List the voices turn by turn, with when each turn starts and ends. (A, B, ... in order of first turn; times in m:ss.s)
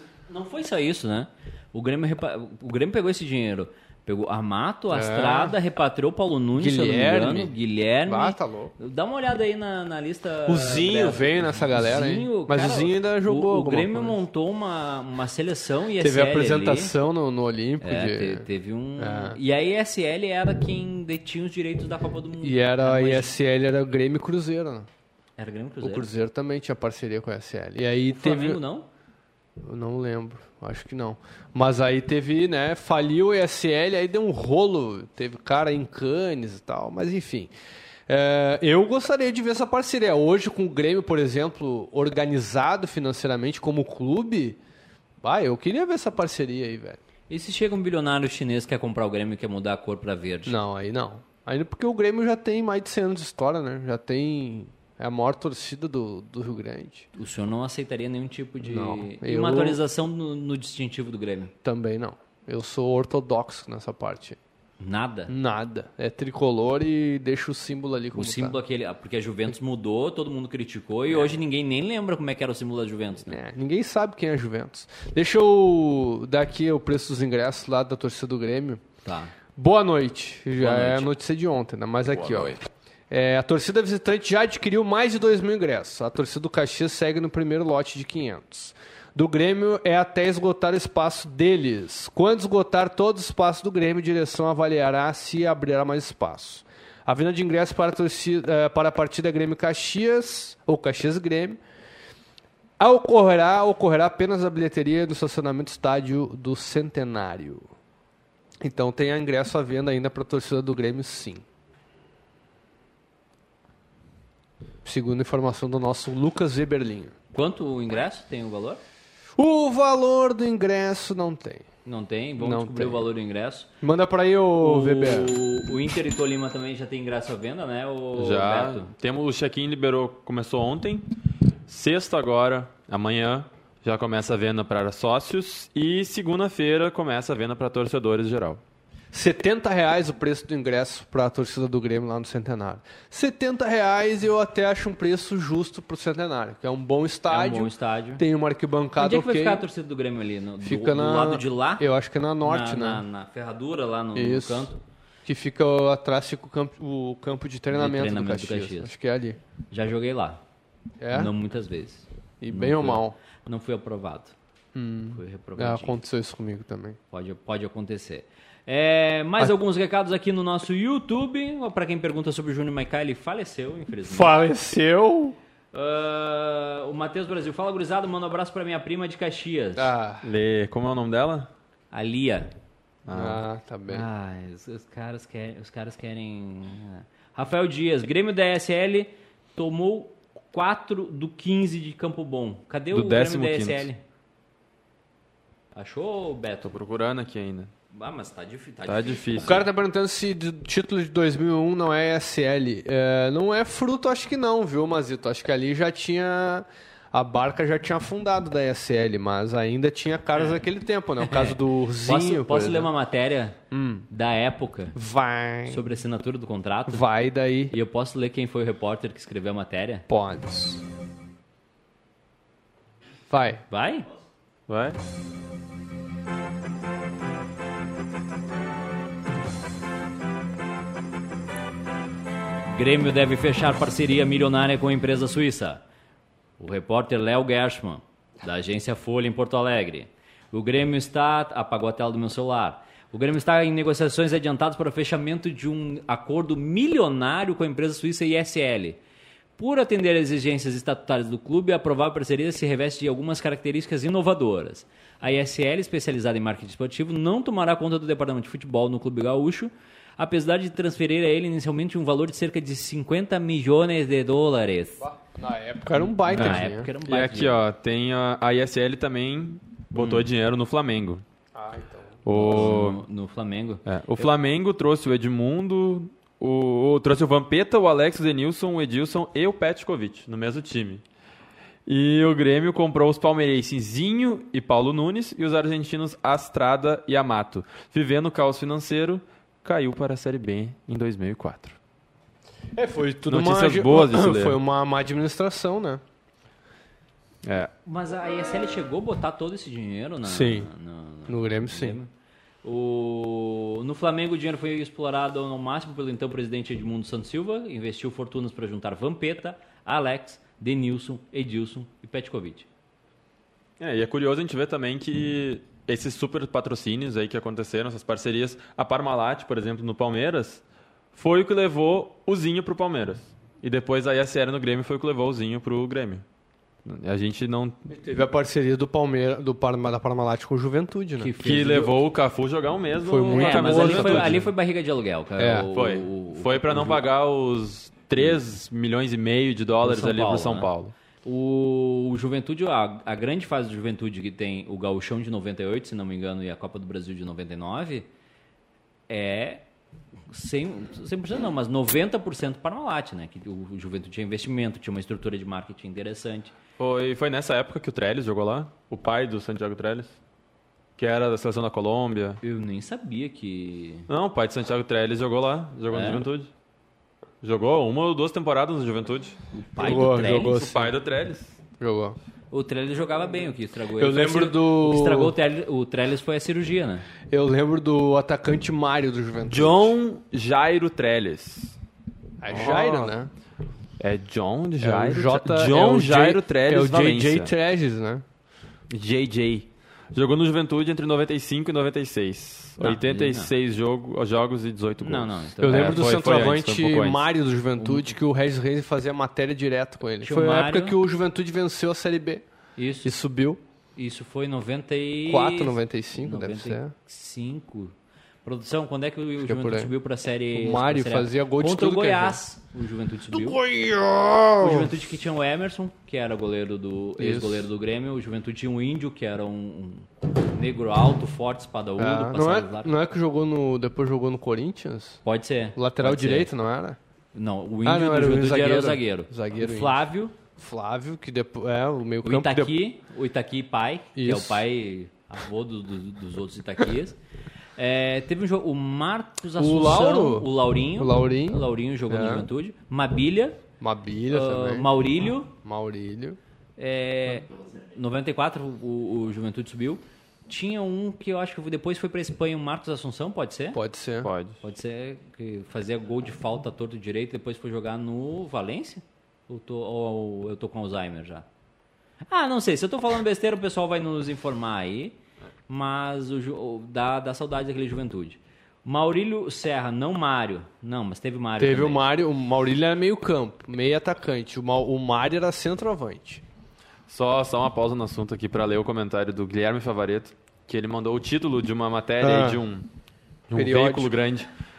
0:00.3-0:16.9 A
0:04.9-0:05.6 B
0:06.6-0:08.7 B
0:10.4-0:14.2 B
0:16.0-0:18.4 B
0:17.8-0:23.3 A
0:19.0-0:19.4 B
0:22.4-0:24.9 B
0:25.4-0:26.1 A
0:25.8-0:28.6 B
0:28.1-0:28.9 A
0:29.6-0:37.5 B
0:38.1-0:44.6 B
0:45.2-0:47.0 B
0:47.3-0:50.6 A
0:50.4-0:57.1 B
0:57.1-1:01.5 A
0:58.6-0:59.8 B
1:01.6-1:04.4 B
1:04.8-1:05.3 A
1:05.3-1:08.6 B
1:08.1-1:13.4 A
1:13.3-1:18.8 B
1:19.0-1:19.3 A
1:19.6-1:41.6 B
1:20.6-1:21.1 A
1:42.8-1:47.7 B
1:48.6-1:51.4 B
1:54.8-1:57.1 B
1:57.3-1:58.8 A
1:59.4-2:01.6 B
2:01.8-2:03.7 A
2:02.4-2:03.1 B
2:03.8-2:05.4 B
2:04.6-2:08.9 A
2:08.2-2:11.1 C
2:11.7-2:18.6 C
2:19.1-2:29.7 B
2:27.3-2:28.2 A
2:29.0-2:31.9 A
2:30.6-2:33.0 B
2:32.4-2:34.8 A
2:34.1-2:34.7 B
2:35.2-2:39.4 B
2:37.7-2:38.9 A
2:39.7-2:40.4 A
2:41.0-2:41.3 B
2:41.1-2:44.3 A
2:42.4-2:43.2 B
2:44.7-2:47.0 B
2:45.1-2:46.0 A
2:47.1-2:54.3 A
2:54.1-2:55.4 B
2:55.7-2:59.9 A
2:59.8-3:00.2 B
3:00.2-3:01.5 C
3:01.9-3:02.5 A
3:03.0-3:03.4 C
3:03.1-3:04.1 B
3:03.9-3:14.0 A
3:12.9-3:13.9 C
3:15.7-3:16.7 A
3:16.6-3:17.7 C
3:17.9-3:19.7 A
3:18.8-3:19.6 C
3:19.4-3:32.9 B
3:31.2-3:33.6 A
3:33.7-3:34.0 B
3:34.1-3:35.0 A
3:34.9-3:35.8 B
3:35.7-3:37.1 A
3:36.9-3:37.7 B
3:37.7-3:40.0 A
3:40.1-3:40.8 B
3:43.3-3:43.6 B
3:43.7-3:44.1 A
3:44.7-3:45.0 C
3:52.7-3:55.8 A
3:56.6-4:09.0 A
4:09.6-4:25.1 A
4:25.0-4:26.9 B
4:26.2-4:27.6 A
4:26.3-4:31.2 C
4:30.0-4:30.2 A
4:31.5-4:32.3 B
4:32.2-4:33.0 C
4:32.3-4:34.3 A
4:33.8-4:41.0 C
4:41.8-4:51.8 C
4:52.7-4:56.0 B
4:53.3-4:54.6 C
4:57.4-4:57.7 C
4:57.8-5:02.1 A
5:00.2-5:00.7 B
5:01.3-5:02.0 B
5:02.6-5:12.7 A
5:13.8-5:20.6 C
5:21.1-5:26.2 C
5:26.8-5:27.8 C
5:27.9-5:31.3 B
5:31.2-5:32.0 A
5:31.4-5:34.4 C
5:33.0-5:34.4 B
5:33.3-5:37.0 A
5:35.4-5:35.7 B
5:35.7-5:40.9 C
5:39.8-5:40.7 A
5:41.2-5:48.1 A
5:49.1-5:49.6 A
5:50.3-5:56.5 A
5:56.8-6:00.2 C
6:01.0-6:02.4 C
6:02.4-6:04.1 A
6:04.1-6:06.5 C
6:05.9-6:06.2 A
6:07.4-6:09.4 C
6:09.5-6:10.7 A
6:09.8-6:10.9 B
6:10.7-6:11.5 C
6:11.8-6:12.2 B
6:12.5-6:17.1 A
6:14.0-6:15.4 B
6:17.3-6:20.0 B
6:19.5-6:21.8 C
6:22.4-6:23.3 B
6:22.5-6:23.1 C
6:24.0-6:27.5 C
6:24.8-6:28.2 B
6:28.9-6:37.2 C
6:32.8-6:33.5 A
6:35.0-6:36.1 A
6:35.6-6:42.4 B
6:40.2-6:41.0 A
6:42.8-6:43.1 A
6:43.0-6:43.6 B
6:44.0-6:47.9 A
6:45.2-6:46.9 B
6:48.4-6:53.6 A
6:49.4-6:49.9 B
6:50.5-6:52.4 B
6:53.3-6:55.0 B
6:54.6-7:02.9 A
6:57.2-6:57.7 B
7:02.0-7:05.2 B
7:05.2-7:06.5 A
7:05.8-7:07.0 B
7:07.3-7:10.4 A
7:07.8-7:10.0 B
7:10.6-7:12.8 B
7:12.2-7:17.2 A
7:14.1-7:14.6 B
7:17.8-7:23.6 A
7:19.6-7:22.5 B
7:23.8-7:24.9 B
7:24.3-7:25.5 A
7:25.6-7:26.4 B
7:26.8-7:33.8 A
7:33.7-7:34.3 B
7:34.2-7:34.6 C
7:34.6-7:41.4 A
7:42.3-7:45.2 A
7:45.7-7:52.0 A
7:51.6-7:56.4 B
7:57.1-8:02.9 C
8:02.2-8:02.6 B
8:03.5-8:04.5 C
8:03.5-8:04.1 B